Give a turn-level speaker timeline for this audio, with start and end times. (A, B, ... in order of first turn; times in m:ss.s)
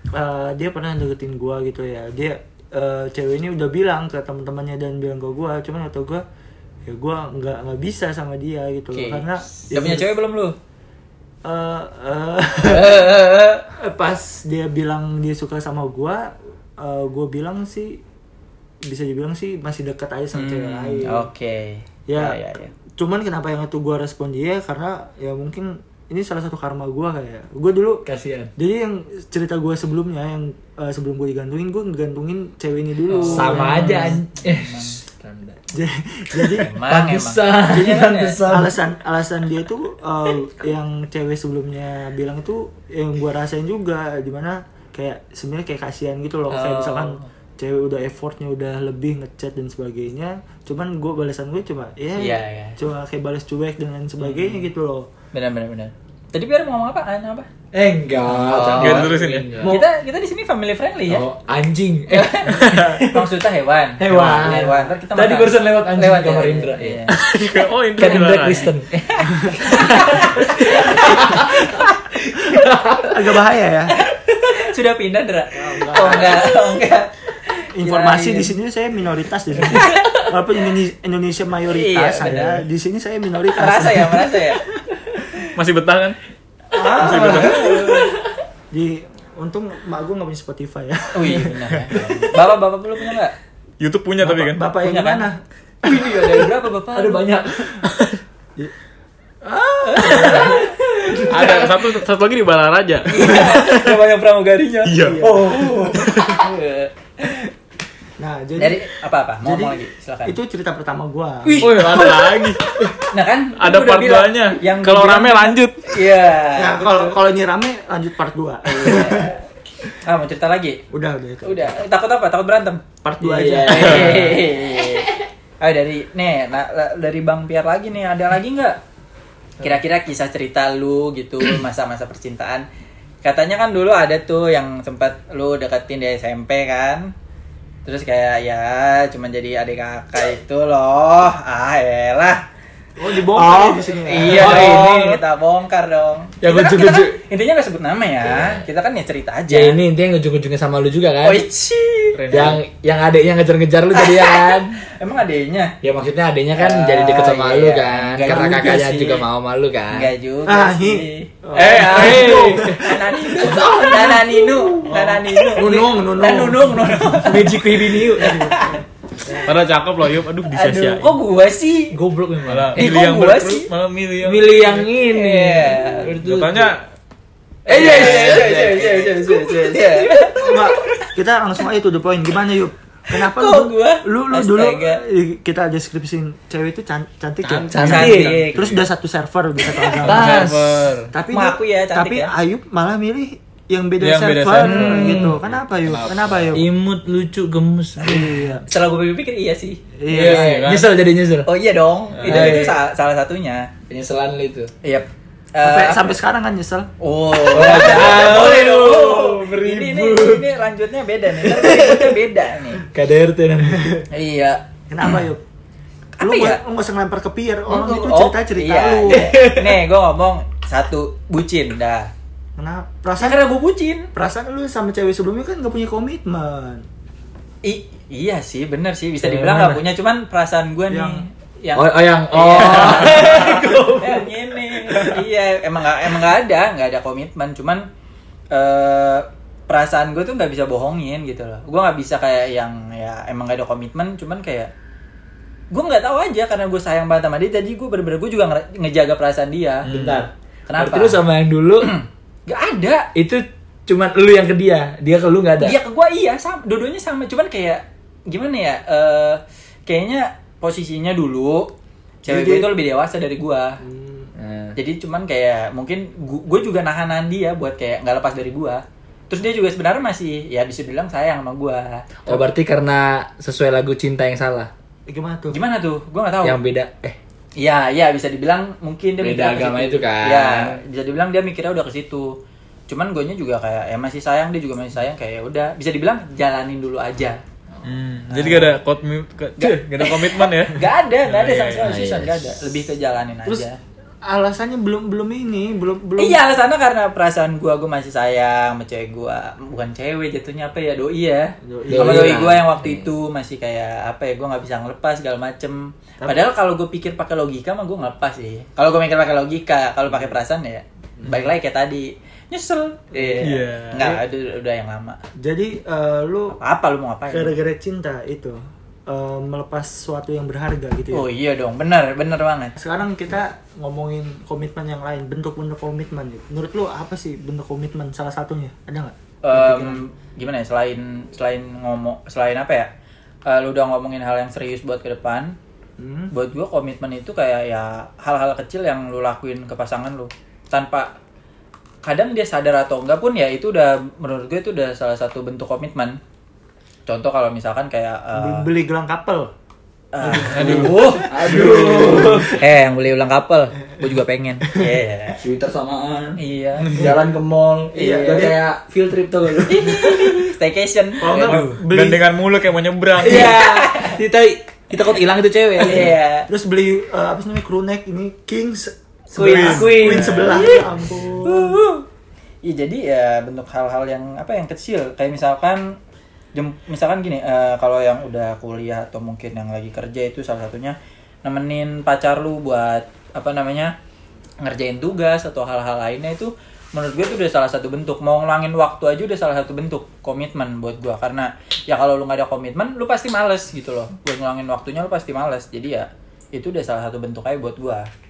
0:00.1-0:06.2 A
0:06.8-0:10.1 A
0:08.9-0:10.6 B
0:11.4-0:13.1 A
0:12.6-0:13.6 B
0:13.8-0:18.0 A
0:18.8-0:21.3 A
0:20.3-0:22.7 B
0:22.1-0:28.0 A
0:28.0-0:28.5 C
0:28.6-0:34.1 A
0:33.1-0:35.0 B
0:33.2-0:35.6 C
0:35.7-0:36.7 A
0:36.4-0:38.8 C
0:36.6-0:38.4 B
0:37.8-0:55.1 A
0:46.5-0:47.3 B
0:52.2-0:52.8 B
0:54.2-0:54.7 B
0:55.3-0:57.5 B
0:57.7-0:59.8 C
0:58.3-0:59.1 B
0:58.7-0:59.6 D
0:59.6-1:01.2 B
1:01.1-1:03.3 C
1:02.1-1:07.2 B
1:02.6-1:03.0 D
1:04.0-1:11.8 C
1:07.2-1:08.7 D
1:09.2-1:11.9 B
1:09.4-1:09.7 A
1:12.4-1:13.4 C
1:13.0-1:14.0 A
1:13.9-1:18.5 B
1:15.5-1:16.6 A
1:17.8-1:24.8 A
1:19.7-1:20.3 B
1:21.7-1:22.6 B
1:23.5-1:24.6 B
1:25.5-1:26.2 D
1:26.7-1:28.2 A
1:27.0-1:27.8 D
1:27.1-1:28.1 B
1:28.7-1:32.3 A
1:31.1-1:33.4 B
1:33.8-1:34.6 D
1:34.2-1:37.9 A
1:34.8-1:35.3 B
1:35.8-1:37.3 B
1:37.0-1:37.6 C
1:37.9-1:38.2 D
1:39.4-1:41.7 A
1:39.8-1:41.6 B
1:40.1-1:40.4 C
1:41.2-1:44.0 D
1:43.1-1:47.5 B
1:44.8-1:46.4 D
1:45.0-1:46.0 A
1:48.2-1:48.9 A
1:48.6-1:50.4 B
1:49.4-1:52.2 A
1:51.4-1:52.3 B
1:51.6-1:53.0 D
1:53.1-1:57.2 B
1:53.6-1:56.0 D
1:56.6-1:59.4 A
1:58.6-1:59.4 B
2:00.0-2:00.8 B
2:00.9-2:01.8 A
2:01.4-2:02.8 B
2:03.0-2:04.4 A
2:03.2-2:05.1 C
2:03.6-2:08.8 B
2:09.6-2:12.6 B
2:13.2-2:17.1 B
2:17.8-2:22.4 B
2:23.0-2:24.8 A
2:23.4-2:29.8 B
2:23.4-2:25.2 C
2:26.4-2:27.2 C
2:28.3-2:28.6 C
2:29.5-2:31.5 C
2:31.2-2:32.4 B
2:32.2-2:32.6 D
2:32.3-2:34.8 C
2:33.9-2:35.8 B
2:35.8-2:40.1 C
2:36.6-2:39.3 B
2:38.3-2:38.9 A
2:39.9-2:47.6 B
2:40.4-2:44.2 A
2:41.6-2:42.6 D
2:41.6-2:44.9 C
2:44.8-2:49.5 A
2:47.2-2:48.5 C
2:48.2-2:48.8 B
2:49.4-2:51.2 D
2:50.5-2:52.0 B
2:51.9-2:52.9 C
2:52.5-2:54.9 D
2:52.8-2:53.7 B
2:54.2-2:56.7 C
2:55.1-2:56.1 B
2:56.2-2:56.8 D
2:57.7-3:01.1 B
2:57.7-3:00.6 C
2:57.8-2:58.4 D
3:00.4-3:10.5 A
3:03.1-3:05.0 B
3:07.5-3:08.8 D
3:07.6-3:08.4 C
3:07.8-3:08.8 B
3:10.0-3:11.1 D
3:10.0-3:10.8 C
3:11.1-3:16.7 A
3:11.3-3:12.3 B
3:14.0-3:16.6 D
3:14.6-3:15.4 C
3:16.5-3:18.4 C
3:18.0-3:18.6 A
3:18.7-3:19.8 B
3:20.0-3:20.7 A
3:20.1-3:21.5 C
3:20.1-3:20.9 D
3:21.5-3:23.7 B
3:22.1-3:22.6 D
3:22.2-3:22.8 C
3:23.9-3:24.7 C
3:24.8-3:26.0 B
3:25.6-3:26.9 A
3:27.0-3:32.8 B
3:27.5-3:30.5 C
3:27.6-3:28.2 A
3:31.4-3:32.2 C
3:32.8-3:34.0 C
3:33.7-3:34.0 A
3:34.1-3:35.2 B
3:34.9-3:35.4 A
3:36.2-3:36.6 B
3:36.2-3:39.4 A
3:37.7-3:42.1 B
3:39.1-3:39.8 C
3:42.6-3:43.4 A
3:43.2-3:44.1 B
3:44.1-3:46.8 A
3:47.6-3:57.9 B
3:49.2-3:49.8 C
3:50.9-3:51.3 A
3:51.8-3:55.2 C
3:58.5-4:04.7 B
4:05.7-4:09.9 B
4:09.9-4:10.3 D
4:09.9-4:11.9 C
4:10.7-4:11.2 B
4:11.8-4:13.1 B
4:13.2-4:15.8 C
4:15.6-4:21.7 B
4:22.2-4:23.8 B
4:22.3-4:22.7 A
4:23.8-4:24.3 A
4:24.4-4:24.8 C
4:24.8-4:32.4 B
4:32.3-4:34.7 C
4:35.1-4:35.6 A
4:35.5-4:36.6 B
4:36.4-4:37.2 C
4:37.6-4:42.3 B
4:39.2-4:40.8 C
4:42.9-4:47.4 B
4:47.8-4:51.9 D
4:48.3-4:48.7 B
4:49.6-4:53.8 B
4:51.8-4:52.5 C
4:54.2-4:56.4 A
4:56.2-5:15.2 B
5:01.6-5:02.6 A
5:01.9-5:03.1 C
5:06.2-5:06.5 A
5:13.1-5:14.2 A
5:13.4-5:14.0 D
5:15.4-5:16.6 A
5:16.5-5:17.6 B
5:17.3-5:21.3 A
5:21.1-5:22.8 B
5:22.8-5:30.0 A
5:29.4-5:32.9 B
5:33.5-5:35.6 B
5:36.0-5:36.3 A
5:36.3-5:41.1 B
5:42.0-5:46.2 B
5:47.1-5:48.7 B
5:48.3-5:49.5 A
5:50.1-5:51.6 B
5:50.2-5:52.6 A
5:50.4-5:51.0 D
5:50.6-5:52.6 C
5:52.5-5:55.4 B
5:54.7-5:54.9 A
5:55.4-5:56.4 C
5:56.4-5:57.0 B
5:56.9-6:00.5 C
5:57.9-5:58.5 B
5:57.9-5:58.6 A
5:59.7-6:01.8 B
6:01.2-6:02.2 A
6:01.3-6:03.6 D
6:03.2-6:06.2 C
6:03.2-6:04.2 B
6:05.8-6:06.5 B
6:06.0-6:11.8 A
6:09.4-6:10.8 C
6:09.4-6:10.6 D
6:09.5-6:10.8 B
6:11.4-6:12.1 B
6:12.6-6:16.0 B
6:16.6-6:24.0 B
6:24.6-6:38.1 B